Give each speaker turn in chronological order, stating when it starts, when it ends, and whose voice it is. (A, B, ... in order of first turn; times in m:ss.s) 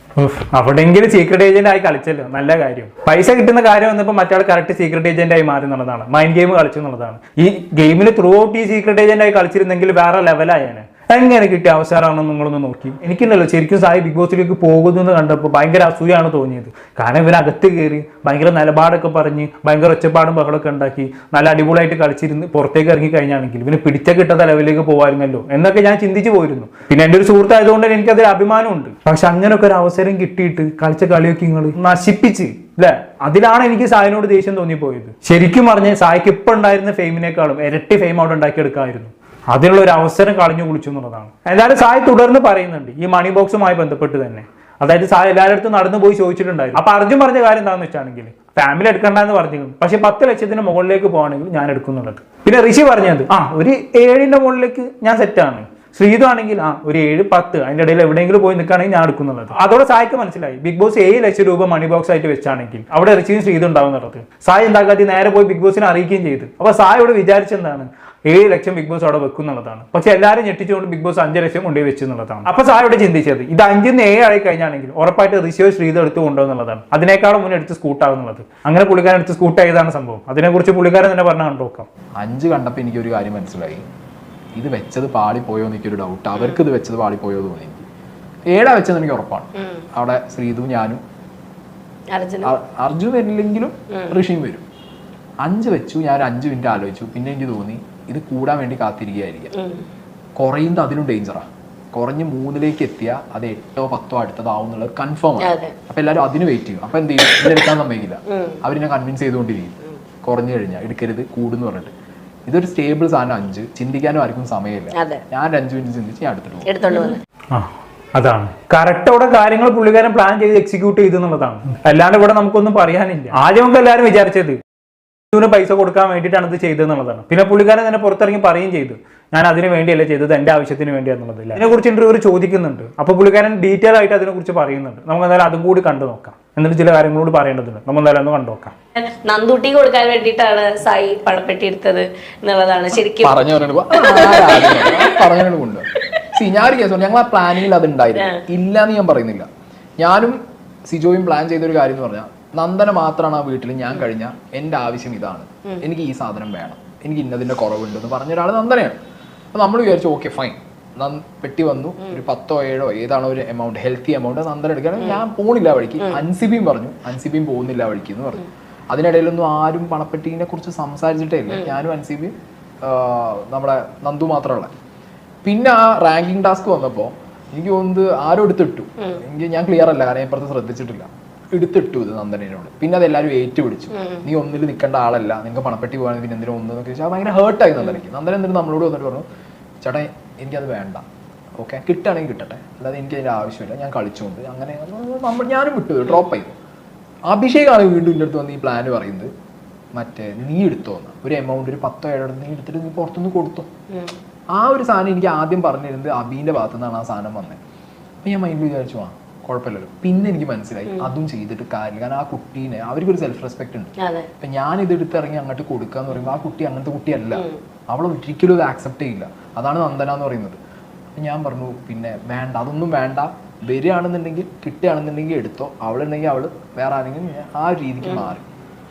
0:00.2-1:21.9 A
1:22.2-1:23.8 B
1:24.6-1:27.8 B
1:28.5-1:31.0 B
1:29.6-1:29.8 C
1:32.1-1:32.5 C
1:32.4-1:34.6 B
1:35.4-1:39.5 B
1:39.6-1:39.8 C
1:40.4-1:51.9 B
1:45.4-1:45.7 C
1:48.3-1:48.6 C
1:52.5-1:56.8 B
1:54.9-1:55.2 C
1:56.7-1:57.2 C
1:57.5-2:04.6 A
2:05.3-2:18.7 A
2:19.0-2:23.4 C
2:23.2-2:29.5 B
2:24.0-2:25.2 C
2:25.9-2:26.3 C
2:28.2-2:28.4 C
2:30.0-2:39.0 B
2:39.5-2:54.7 B
2:51.5-2:51.8 C
2:55.4-3:09.2 B
3:09.8-3:11.0 B
3:11.6-3:16.6 B
3:17.3-3:19.3 B
3:20.0-3:23.7 B
3:23.9-3:24.2 C
3:24.5-3:27.6 B
3:28.2-3:40.6 B
3:34.0-3:34.3 C
3:41.2-3:48.4 B